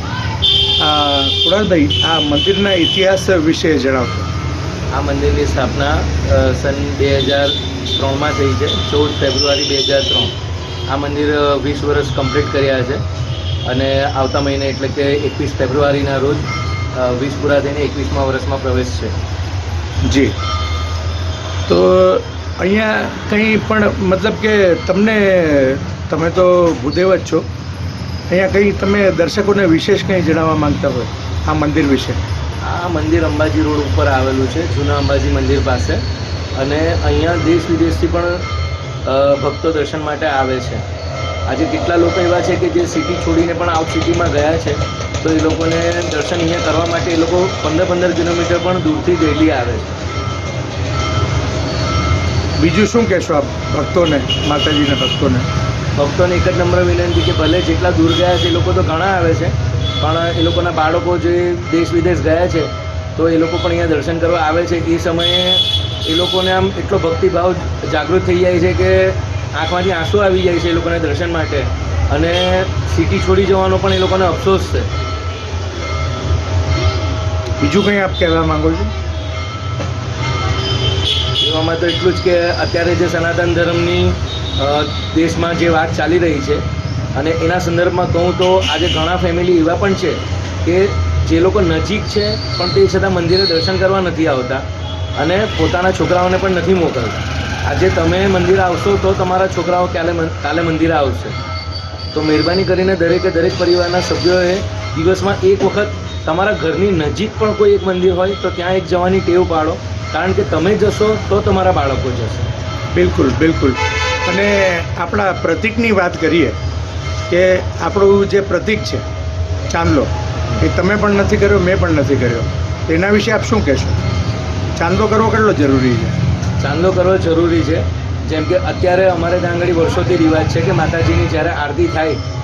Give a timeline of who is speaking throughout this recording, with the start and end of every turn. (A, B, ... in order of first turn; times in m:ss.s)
0:00.8-0:04.3 A
0:04.9-0:10.3 B
0:10.9-0:13.0 B
0:13.6-0:19.1 B
0:20.0-0:20.3 A
0:21.7-0:27.4 A
0:28.3-0:32.2 A
0:32.6-0:36.0 B
0:36.6-0:38.4 B
0:39.0-0:40.8 B
0:41.5-0:50.0 B
0:52.6-0:55.5 A
0:56.0-1:14.9 B
1:17.6-1:18.9 A
1:21.4-1:26.6 B
1:27.1-1:34.6 B
1:35.2-1:41.4 B
1:42.1-1:52.5 B
1:52.9-1:56.6 A
1:57.3-1:59.0 A
1:59.7-2:04.0 A
2:04.8-2:06.1 A
2:06.6-2:12.2 B